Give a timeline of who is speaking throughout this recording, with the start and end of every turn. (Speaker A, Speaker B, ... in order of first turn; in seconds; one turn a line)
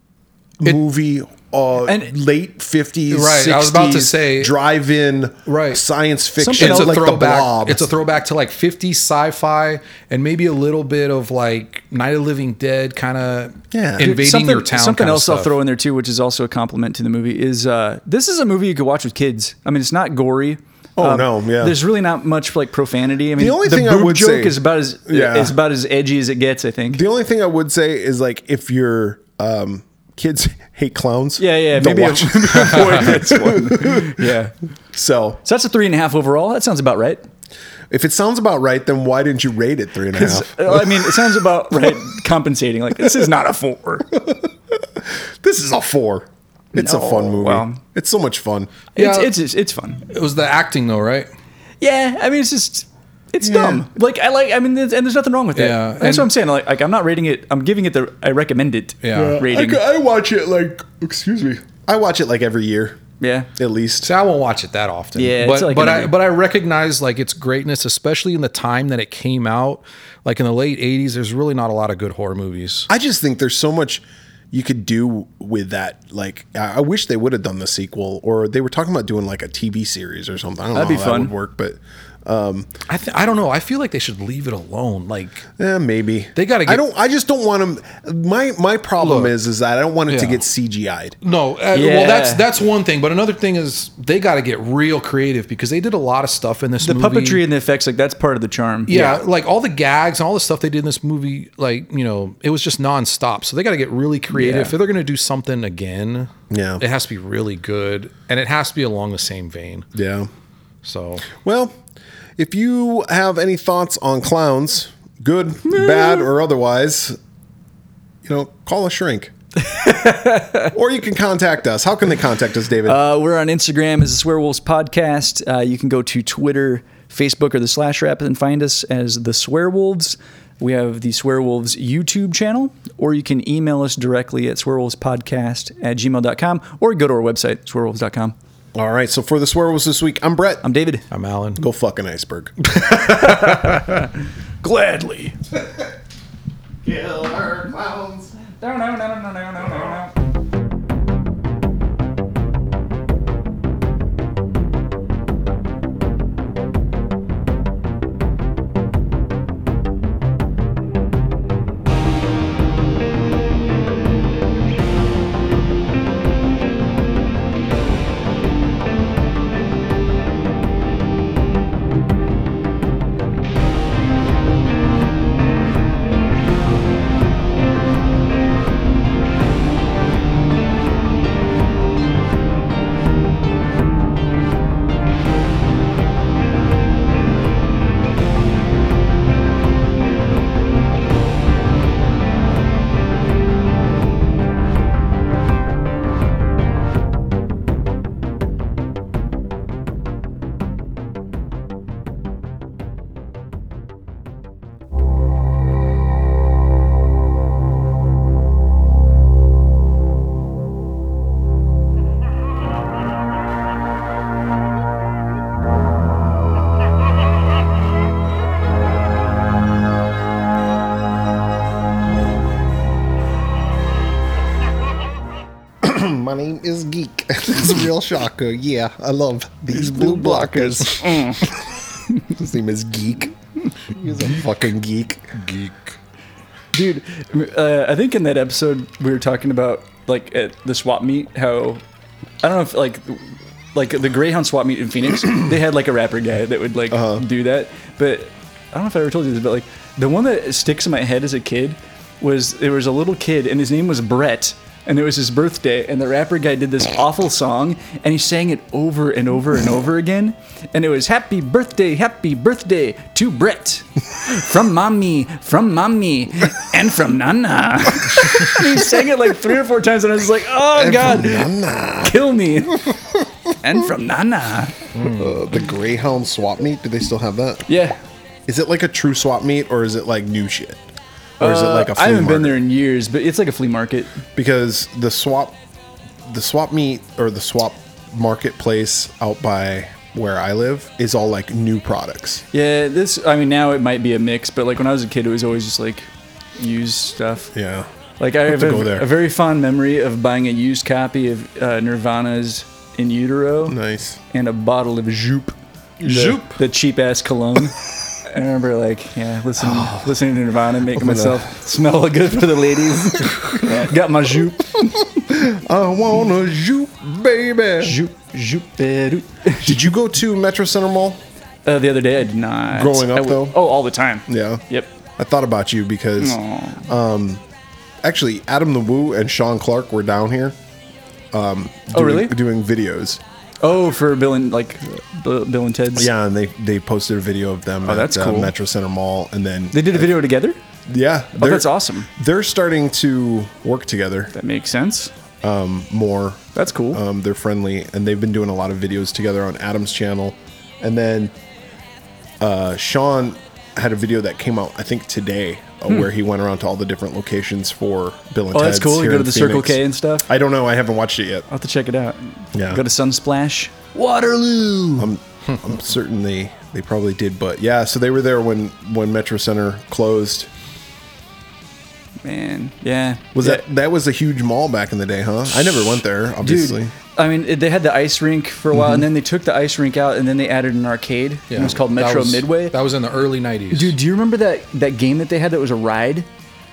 Speaker A: 0.6-7.9
Speaker B: 1.8-2.1
Speaker C: 3.1-4.5
Speaker C: 5.5-5.8
Speaker B: 6.4-7.0
Speaker C: 6.6-15.6
Speaker A: 13.7-14.1
Speaker B: 14.0-27.0
Speaker A: 21.0-21.8
Speaker A: 23.4-25.6
Speaker A: 26.9-34.3
Speaker B: 31.4-34.5
Speaker A: 34.9-35.4
Speaker B: 35.4-37.2
Speaker A: 37.9-42.0
Speaker B: 40.1-44.1
Speaker A: 44.1-48.7
Speaker B: 46.7-47.8
Speaker B: 49.0-50.0
Speaker C: 49.0-49.3
Speaker C: 50.1-51.3
Speaker B: 51.8-59.8
Speaker A: 53.4-53.8
Speaker C: 55.5-56.3
Speaker C: 59.0-59.4
Speaker A: 59.1-63.0
Speaker B: 63.2-63.5
Speaker A: 63.5-64.1
Speaker C: 64.0-72.9
Speaker B: 65.1-66.1
Speaker A: 72.9-82.7
Speaker B: 80.7-81.3
Speaker C: 82.9-85.5
Speaker A: 85.6-91.2
Speaker C: 86.4-86.8
Speaker C: 89.0-89.3
Speaker C: 90.1-90.4
Speaker C: 91.2-97.4
Speaker B: 91.7-92.5
Speaker B: 96.8-99.2
Speaker C: 98.9-109.9
Speaker B: 104.3-104.8
Speaker A: 106.5-106.8
Speaker A: 110.0-110.3
Speaker C: 110.8-111.3
Speaker A: 111.3-111.8
Speaker A: 112.4-117.2
Speaker B: 115.7-116.2
Speaker A: 118.2-119.3
Speaker B: 119.6-120.7
Speaker A: 120.7-123.0
Speaker B: 122.8-138.3
Speaker A: 138.7-140.6
Speaker B: 140.6-141.0
Speaker C: 141.1-141.6
Speaker A: 141.6-142.6
Speaker B: 142.8-144.1
Speaker C: 143.2-143.8
Speaker B: 144.6-145.4
Speaker A: 146.8-148.3
Speaker B: 148.6-150.1
Speaker A: 225.8-231.6
Speaker B: 229.7-231.5
Speaker A: 232.2-233.3
Speaker A: 233.9-235.4
Speaker C: 235.4-235.9
Speaker B: 236.7-241.8
Speaker B: 242.4-272.9
Speaker A: 246.9-247.2
Speaker A: 270.7-272.2
Speaker A: 272.7-273.5
Speaker B: 273.6-274.9
Speaker C: 274.9-275.4
Speaker A: 275.0-277.7
Speaker B: 277.7-278.0
Speaker A: 278.5-280.8
Speaker A: 281.4-282.6
Speaker B: 281.4-284.2
Speaker A: 284.4-285.6
Speaker A: 286.2-292.4
Speaker B: 292.5-297.5
Speaker A: 297.5-297.9
Speaker B: 298.2-303.8
Speaker A: 298.5-299.1
Speaker A: 303.7-304.2
Speaker B: 304.3-305.6
Speaker C: 306.0-306.6
Speaker A: 306.0-306.4
Speaker B: 306.1-315.0
Speaker A: 309.6-310.0
Speaker A: 310.9-311.4
Speaker A: 315.0-318.0
Speaker B: 317.8-319.9
Speaker A: 319.6-321.2
Speaker B: 321.7-324.9
Speaker A: 322.7-323.6
Speaker A: 324.3-324.6
Speaker A: 325.2-327.4
Speaker B: 326.2-326.9
Speaker A: 328.0-330.6
Speaker A: 331.3-333.2
Speaker B: 331.9-332.3
Speaker B: 333.6-336.1
Speaker A: 336.0-340.1
Speaker B: 337.8-338.5
Speaker B: 339.7-340.6
Speaker A: 340.9-344.3
Speaker B: 341.4-342.1
Speaker B: 344.3-345.1
Speaker A: 345.4-351.3
Speaker B: 346.5-347.0
Speaker A: 352.4-361.5
Speaker B: 358.5-360.3
Speaker B: 361.5-365.1
Speaker A: 362.5-362.8
Speaker A: 365.0-370.5
Speaker B: 372.2-373.6
Speaker A: 373.3-376.9
Speaker B: 376.4-382.8
Speaker A: 378.7-379.0
Speaker C: 381.5-383.9
Speaker B: 383.7-386.3